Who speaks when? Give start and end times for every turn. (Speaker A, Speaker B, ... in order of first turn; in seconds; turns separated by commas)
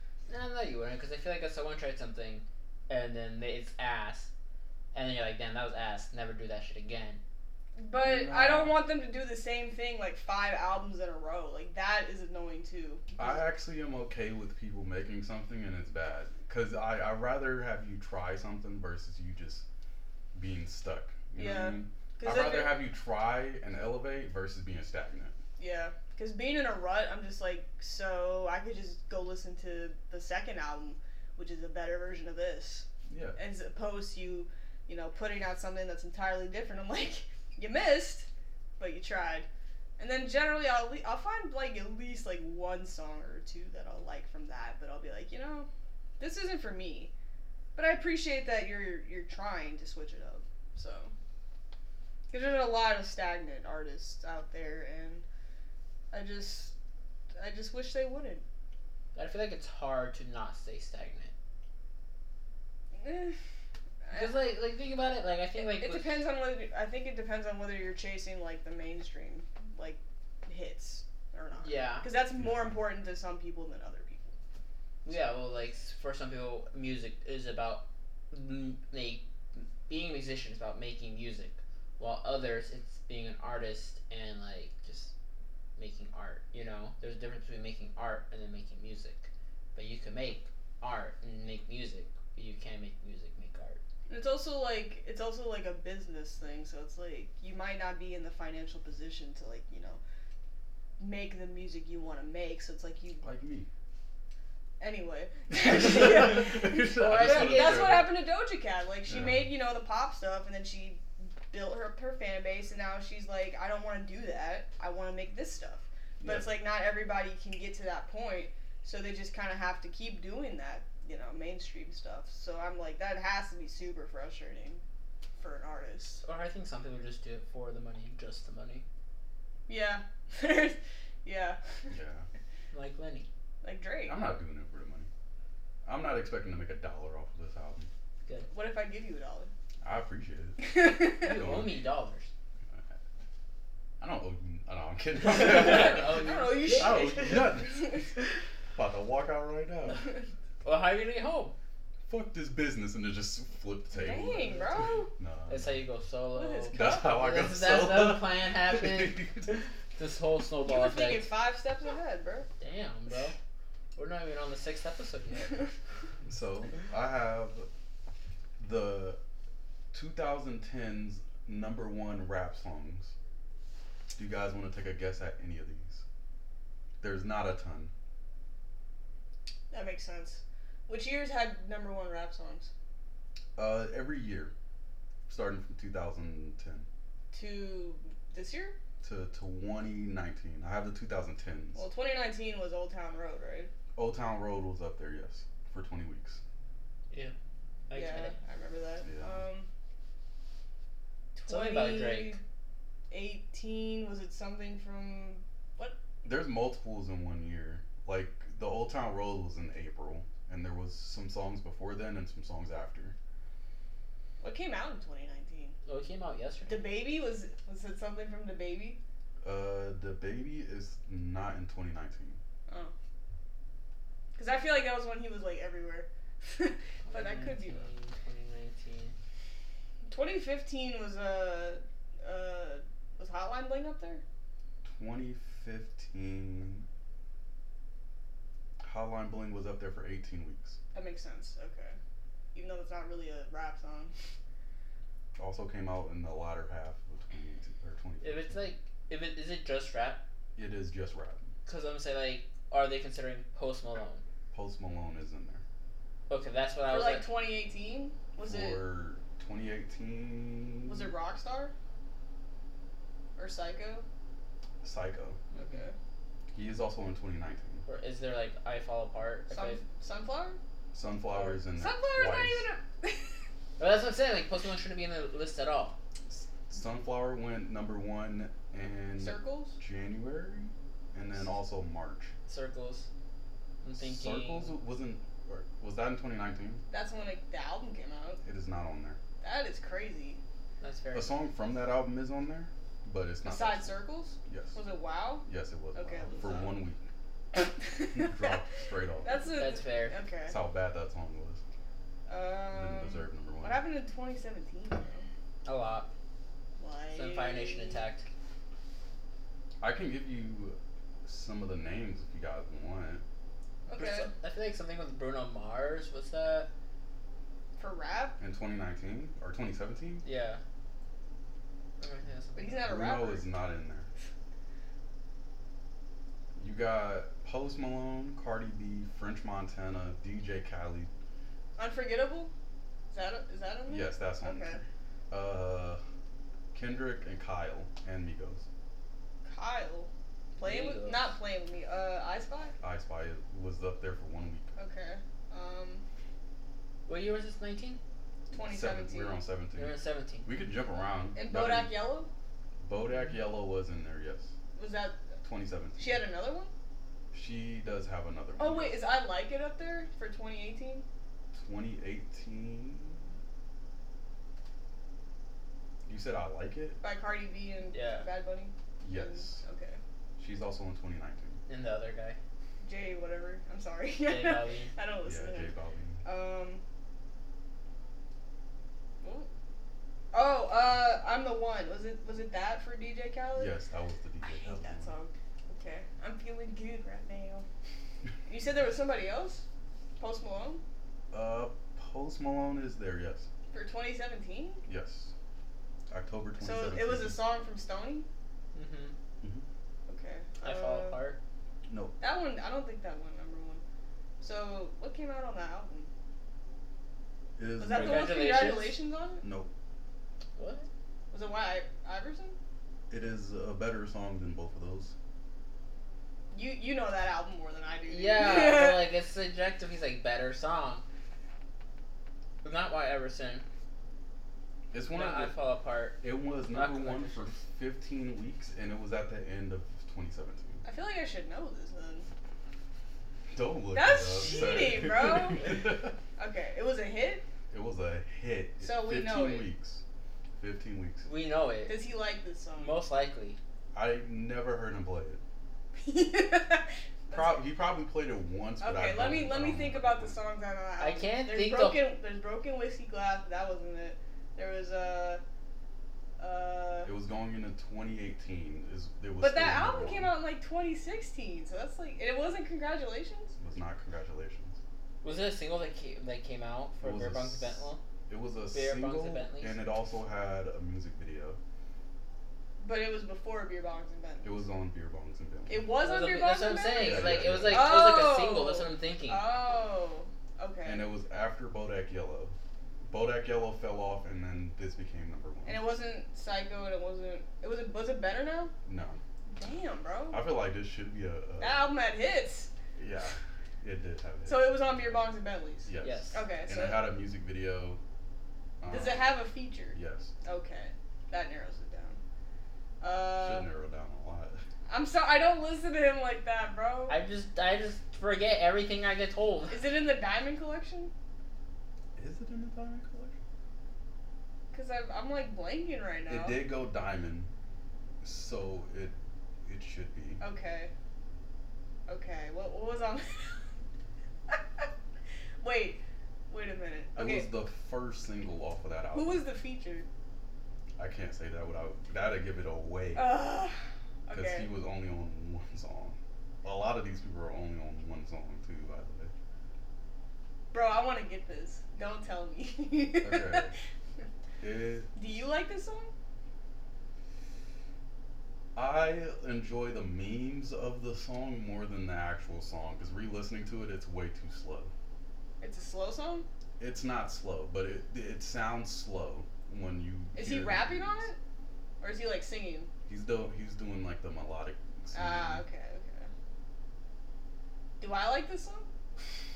Speaker A: 0.3-4.3, Speaker A: 4.9-7.2, Speaker B: 7.8-13.4, Speaker C: 8.1-8.7, Speaker A: 8.2-8.7, Speaker C: 13.2-19.6, Speaker C: 20.3-25.4, Speaker B: 21.4-22.8, Speaker B: 25.6-39.5, Speaker C: 33.1-33.4, Speaker B: 40.0-45.7, Speaker B: 46.2-47.1, Speaker B: 47.7-51.1, Speaker B: 52.3-55.2, Speaker B: 56.1-56.7, Speaker B: 57.4-58.4, Speaker A: 59.1-61.3, Speaker B: 62.9-63.4, Speaker B: 64.0-64.3, Speaker A: 64.1-66.2, Speaker B: 65.5-74.3, Speaker A: 71.5-72.1, Speaker C: 72.4-72.8, Speaker A: 75.0-85.1, Speaker A: 85.8-93.8, Speaker B: 94.1-100.0, Speaker B: 101.0-103.2, Speaker C: 103.2-103.7, Speaker B: 104.8-124.8, Speaker C: 105.5-108.1, Speaker A: 106.7-108.1, Speaker C: 109.1-109.5, Speaker C: 116.2-116.5, Speaker B: 125.4-126.2, Speaker A: 126.2-128.8, Speaker B: 129.7-131.6, Speaker C: 131.9-132.2, Speaker A: 132.7-133.3, Speaker B: 133.6-134.2, Speaker C: 134.1-135.1, Speaker C: 135.8-137.9, Speaker A: 138.2-138.5, Speaker B: 138.5-139.5, Speaker C: 139.8-141.8, Speaker B: 140.6-141.4, Speaker A: 141.2-142.3, Speaker C: 144.0-148.1, Speaker A: 145.2-147.5, Speaker B: 145.3-148.1, Speaker C: 148.7-150.1, Speaker A: 150.6-151.5, Speaker C: 152.1-155.8, Speaker B: 153.9-155.1, Speaker A: 154.3-154.8, Speaker A: 155.5-161.3, Speaker B: 156.3-157.2, Speaker C: 156.7-159.6, Speaker B: 160.6-162.5, Speaker A: 162.6-163.3, Speaker A: 163.9-165.6, Speaker C: 166.2-167.7, Speaker C: 168.6-169.2, Speaker C: 169.9-173.1, Speaker C: 174.1-176.0, Speaker C: 177.0-177.9, Speaker B: 179.7-182.7, Speaker C: 183.6-184.5, Speaker C: 185.3-186.8, Speaker B: 187.3-188.8, Speaker C: 189.0-191.8, Speaker B: 191.7-193.7, Speaker C: 193.9-196.4, Speaker A: 197.9-198.3, Speaker B: 197.9-199.7, Speaker C: 199.0-199.4, Speaker B: 201.3-202.4, Speaker A: 201.5-202.4, Speaker B: 203.1-205.9, Speaker C: 206.2-213.1, Speaker B: 214.4-215.8, Speaker A: 215.8-216.9, Speaker B: 216.7-219.0, Speaker C: 219.4-222.4, Speaker B: 222.7-222.9, Speaker B: 224.3-227.9, Speaker A: 227.1-229.2, Speaker B: 230.1-234.2, Speaker C: 234.8-236.8, Speaker C: 238.8-240.8, Speaker B: 240.9-242.0, Speaker B: 242.5-244.1, Speaker C: 245.4-248.5, Speaker A: 248.2-250.2, Speaker C: 250.6-251.5, Speaker A: 251.7-254.2, Speaker C: 254.5-255.6, Speaker A: 256.3-257.3, Speaker B: 256.9-258.8, Speaker C: 258.4-261.1, Speaker B: 260.8-261.7, Speaker B: 263.4-264.0, Speaker C: 264.8-265.4, Speaker A: 265.5-265.8, Speaker B: 265.5-265.9, Speaker C: 266.5-267.8, Speaker A: 267.9-269.8, Speaker B: 269.5-270.6, Speaker C: 270.9-272.6, Speaker B: 271.7-273.4, Speaker A: 273.8-276.0, Speaker C: 276.3-282.3, Speaker B: 279.2-279.8, Speaker A: 282.5-283.1, Speaker A: 283.8-284.8, Speaker C: 284.0-286.8, Speaker B: 286.9-288.4, Speaker C: 288.4-289.2, Speaker B: 289.4-290.4, Speaker A: 290.8-291.3, Speaker C: 291.1-293.9, Speaker B: 293.4-296.8, Speaker C: 294.4-294.8, Speaker C: 295.4-297.0, Speaker B: 297.8-298.6, Speaker C: 298.0-299.4, Speaker B: 299.2-300.6, Speaker A: 299.5-300.2, Speaker C: 300.5-301.6, Speaker B: 302.3-305.3, Speaker C: 302.7-303.8, Speaker A: 305.6-306.1, Speaker B: 306.8-308.1, Speaker A: 307.1-308.2, Speaker C: 309.8-313.2, Speaker B: 313.9-314.3, Speaker A: 313.9-316.7, Speaker B: 317.8-318.4, Speaker C: 318.4-320.2, Speaker A: 320.2-320.6, Speaker A: 322.0-322.9, Speaker B: 322.6-323.4, Speaker C: 322.8-324.1, Speaker C: 326.6-331.1, Speaker B: 331.8-332.5, Speaker B: 333.1-334.8, Speaker C: 333.9-336.0, Speaker C: 336.7-338.6, Speaker B: 339.4-342.7, Speaker A: 340.6-341.3, Speaker C: 342.8-344.7, Speaker B: 344.8-346.0, Speaker A: 347.1-348.0, Speaker B: 348.5-349.4, Speaker C: 348.5-352.0, Speaker A: 349.8-350.5, Speaker B: 351.4-352.3, Speaker C: 352.8-354.5, Speaker B: 354.7-355.2, Speaker C: 355.4-356.2, Speaker B: 356.0-356.7, Speaker C: 357.3-359.1, Speaker B: 358.6-361.1, Speaker C: 361.5-363.3, Speaker C: 366.1-367.0, Speaker B: 367.0-370.0, Speaker A: 367.9-368.3, Speaker C: 369.0-369.6, Speaker C: 370.4-371.6, Speaker A: 371.7-372.4, Speaker B: 372.8-375.7, Speaker A: 374.2-374.9, Speaker C: 375.2-376.2, Speaker B: 376.2-376.8, Speaker B: 379.2-379.5, Speaker B: 380.3-383.7, Speaker C: 383.5-385.1, Speaker B: 384.4-387.6, Speaker B: 388.4-389.6, Speaker B: 390.2-390.8, Speaker C: 391.3-393.5, Speaker B: 393.7-394.8, Speaker C: 394.9-395.3, Speaker C: 396.1-397.4, Speaker B: 396.6-398.3, Speaker A: 398.7-399.1, Speaker B: 400.1-401.2, Speaker A: 400.6-401.4, Speaker C: 401.9-402.1, Speaker B: 402.2-403.8, Speaker B: 404.4-406.1, Speaker C: 407.6-408.5, Speaker B: 407.8-409.4, Speaker A: 407.9-409.0, Speaker C: 409.4-409.7, Speaker A: 410.6-410.9, Speaker B: 411.3-412.6, Speaker C: 413.1-415.1, Speaker B: 416.5-419.1, Speaker A: 418.1-421.0, Speaker A: 422.6-423.6, Speaker C: 424.9-425.5, Speaker A: 425.1-427.5, Speaker C: 426.2-430.8, Speaker B: 430.8-432.3, Speaker C: 433.5-436.1, Speaker B: 433.9-435.8, Speaker A: 434.5-435.0, Speaker B: 436.4-437.4, Speaker C: 437.7-440.0, Speaker B: 438.8-439.7, Speaker C: 440.6-441.2, Speaker A: 441.2-442.0, Speaker B: 441.9-443.0, Speaker A: 442.8-443.6, Speaker C: 443.9-445.4, Speaker B: 445.9-447.6, Speaker C: 447.3-450.4, Speaker B: 448.8-455.4, Speaker A: 451.0-452.1, Speaker B: 456.4-457.1, Speaker C: 457.0-460.3, Speaker B: 459.4-463.5, Speaker C: 463.6-464.8, Speaker A: 465.2-468.0, Speaker C: 467.0-471.6, Speaker A: 468.7-469.8, Speaker B: 472.8-474.6, Speaker C: 474.4-475.9, Speaker B: 475.7-481.1, Speaker A: 475.9-479.4, Speaker C: 477.0-478.0, Speaker C: 480.8-482.6, Speaker C: 483.1-485.8, Speaker B: 485.6-488.7, Speaker C: 488.9-489.2, Speaker B: 489.5-490.4, Speaker C: 490.3-491.9, Speaker B: 491.6-492.7, Speaker C: 492.9-495.1, Speaker B: 494.4-497.1, Speaker C: 495.8-498.0, Speaker A: 496.0-496.4, Speaker C: 498.8-500.3, Speaker B: 498.9-502.2, Speaker B: 503.0-503.7, Speaker C: 503.4-504.6, Speaker B: 504.9-507.1, Speaker A: 507.1-509.8, Speaker B: 509.7-511.1, Speaker C: 512.1-513.4, Speaker B: 514.7-516.6, Speaker C: 516.3-517.5, Speaker C: 518.2-520.4, Speaker B: 520.4-520.9, Speaker B: 522.1-523.7, Speaker B: 524.5-524.9, Speaker B: 525.6-527.5, Speaker C: 527.1-529.4, Speaker B: 529.1-530.1, Speaker C: 531.0-533.3, Speaker B: 533.1-534.7, Speaker C: 534.3-539.3, Speaker B: 540.7-543.7, Speaker C: 543.2-543.7, Speaker C: 544.6-545.1, Speaker B: 545.1-546.1, Speaker C: 548.7-554.9, Speaker B: 555.6-556.5, Speaker C: 556.8-561.2, Speaker B: 560.3-561.4, Speaker B: 562.0-562.9, Speaker C: 563.1-565.6, Speaker B: 565.1-566.3, Speaker B: 568.0-568.9